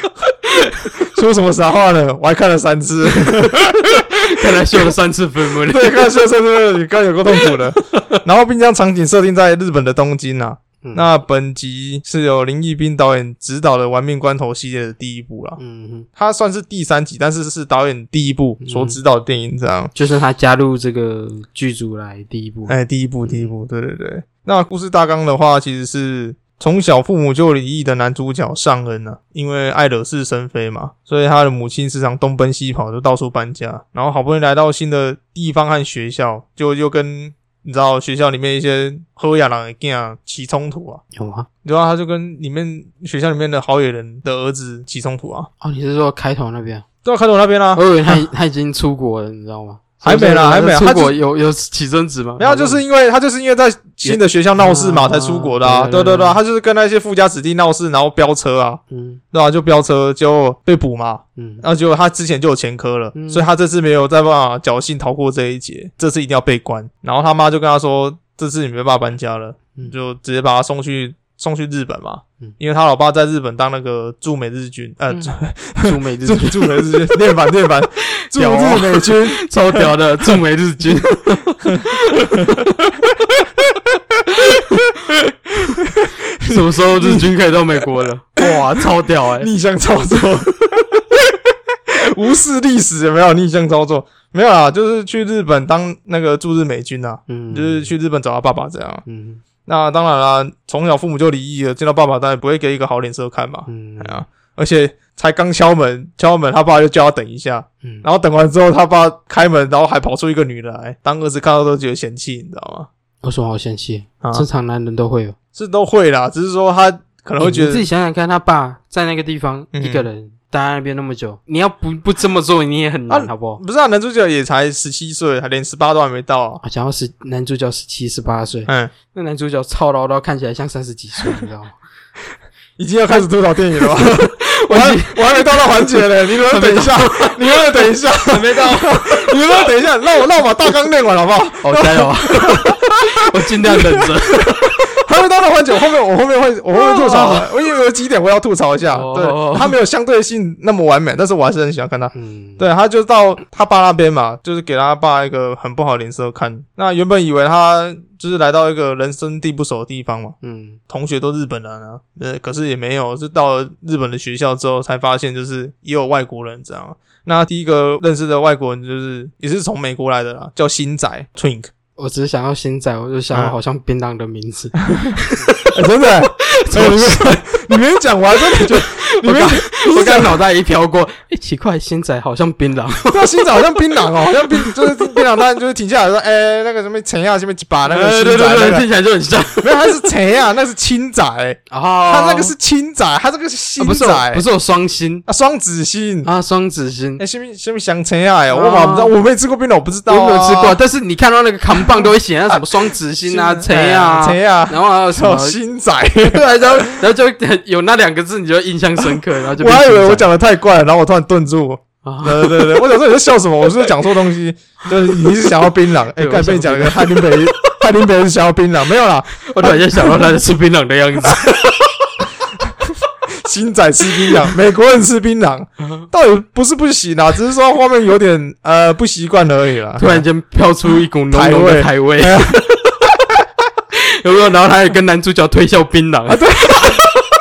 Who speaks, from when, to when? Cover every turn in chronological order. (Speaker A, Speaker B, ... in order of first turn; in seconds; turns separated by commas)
Speaker A: 0.5-1.0, Speaker B: 1.0-4.1, Speaker A: 3.2-6.1, Speaker B: 5.7-15.6, Speaker A: 15.6-16.1, Speaker B: 16.2-19.9, Speaker A: 18.6-19.0, Speaker A: 19.9-23.5, Speaker B: 22.7-41.0, Speaker A: 41.1-41.5, Speaker B: 41.6-45.5, Speaker A: 45.6-46.9, Speaker B: 47.0-48.3, Speaker A: 47.8-52.8, Speaker B: 50.0-51.2, Speaker B: 52.4-58.8, Speaker A: 54.0-56.4, Speaker A: 58.9-59.2, Speaker B: 59.3-79.9, Speaker A: 61.4-61.6, Speaker A: 63.1-63.5, Speaker A: 75.1-77.2, Speaker A: 78.0-82.7, Speaker B: 81.7-82.6, Speaker A: 84.3-85.8, Speaker B: 85.8-87.3, Speaker A: 86.4-89.5, Speaker B: 88.4-91.4, Speaker B: 91.9-99.0, Speaker A: 97.3-97.9, Speaker A: 99.1-99.4, Speaker B: 99.7-112.9, Speaker A: 103.7-104.2, Speaker A: 113.2-115.4, Speaker B: 115.5-117.9, Speaker A: 117.4-123.6, Speaker B: 119.7-120.1, Speaker B: 123.1-126.6, Speaker A: 126.6-131.8, Speaker B: 128.7-128.9, Speaker B: 132.8-143.0, Speaker A: 133.8-139.6, Speaker A: 141.6-144.8, Speaker B: 143.7-160.4, Speaker A: 146.8-147.5, Speaker A: 148.9-149.8, Speaker A: 152.1-152.6, Speaker A: 160.4-160.8, Speaker B: 160.9-171.7, Speaker A: 172.0-175.7, Speaker B: 174.9-180.4, Speaker A: 176.4-177.6, Speaker A: 178.3-185.2, Speaker B: 183.1-188.9, Speaker A: 187.9-190.0, Speaker B: 189.6-194.4, Speaker A: 191.7-192.5, Speaker A: 193.8-195.2, Speaker B: 195.3-196.3, Speaker A: 196.2-197.2, Speaker B: 197.2-200.8, Speaker A: 198.5-199.1, Speaker A: 200.1-205.6, Speaker B: 201.8-202.1, Speaker B: 203.2-207.0, Speaker A: 206.2-210.3, Speaker B: 209.6-220.3, Speaker A: 212.0-212.8, Speaker A: 216.2-217.7, Speaker A: 219.4-222.0, Speaker B: 223.3-230.2, Speaker A: 230.0-232.9, Speaker B: 231.3-232.6, Speaker A: 233.9-237.0, Speaker B: 236.3-237.2